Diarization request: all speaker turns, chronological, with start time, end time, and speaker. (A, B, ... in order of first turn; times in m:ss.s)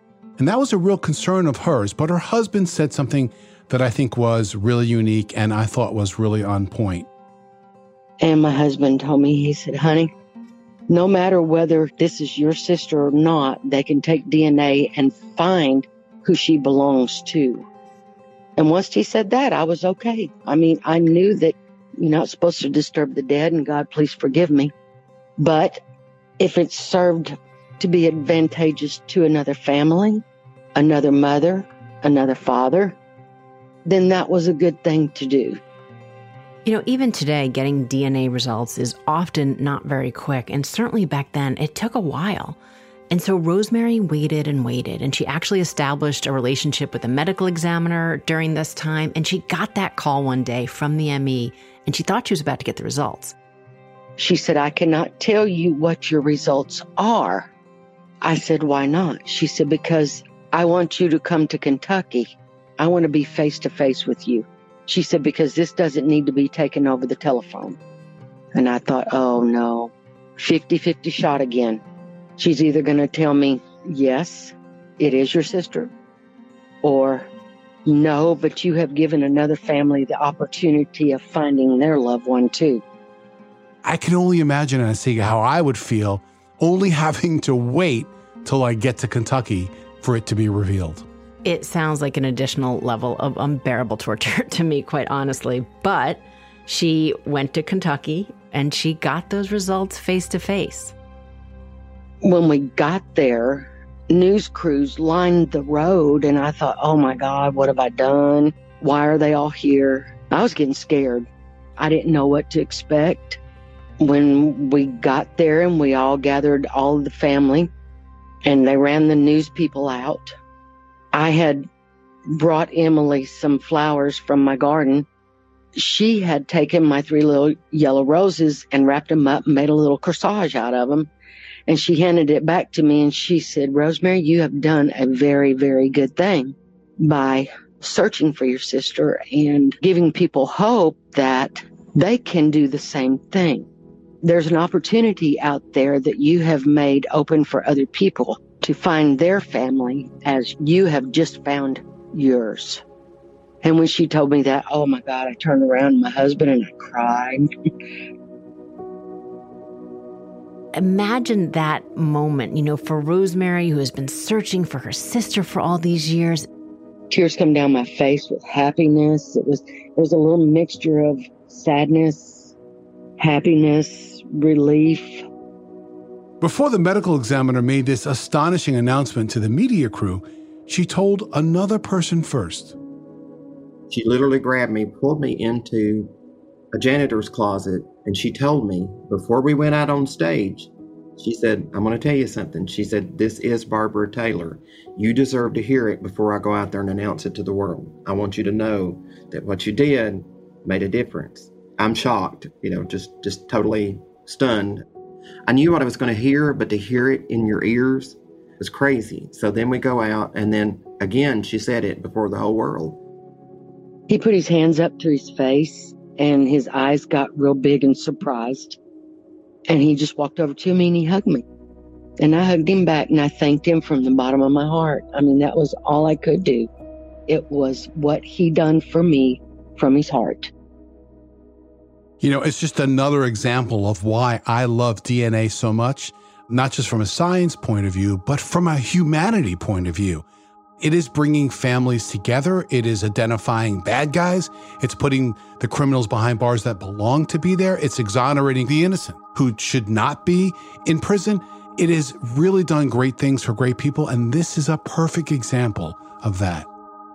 0:00.4-0:07.1 A
0:08.2-0:10.1 B
0:10.9-0:17.6 B
0:18.6-0:24.7 B
0:25.4-0:25.8 B
0:26.4-0:30.2 B
0:30.8-0:33.0 B
0:33.9-0:35.6 B
0:36.6-0:42.6 C
0:43.1-0:53.4 C
0:54.2-0:57.5 B
0:58.2-1:07.8 B
1:08.5-1:11.8 B
1:12.4-1:15.9 B
1:16.8-1:17.3 B
1:17.9-1:22.8 B
1:23.8-1:31.1 A
1:31.4-1:40.9 C
1:42.2-1:51.3 B
1:51.8-1:53.4 B
1:54.0-1:57.7 B
1:58.4-2:00.3 B
2:01.1-2:01.7 B
2:02.3-2:05.1 B
2:05.8-2:11.1 B
2:11.7-2:23.7 B
2:24.2-2:32.8 B
2:33.6-2:37.5 B
2:40.7-2:46.5 C
2:47.1-2:52.5 B
2:53.2-2:55.2 B
2:56.4-3:02.8 A
3:03.9-3:06.1 D
3:06.7-3:24.8 D
3:25.5-3:33.0 D
3:34.1-3:38.8 B
3:39.7-3:41.4 B
3:42.2-3:46.7 B
3:47.3-3:50.5 B
3:52.2-4:00.2 A
4:00.8-4:16.7 A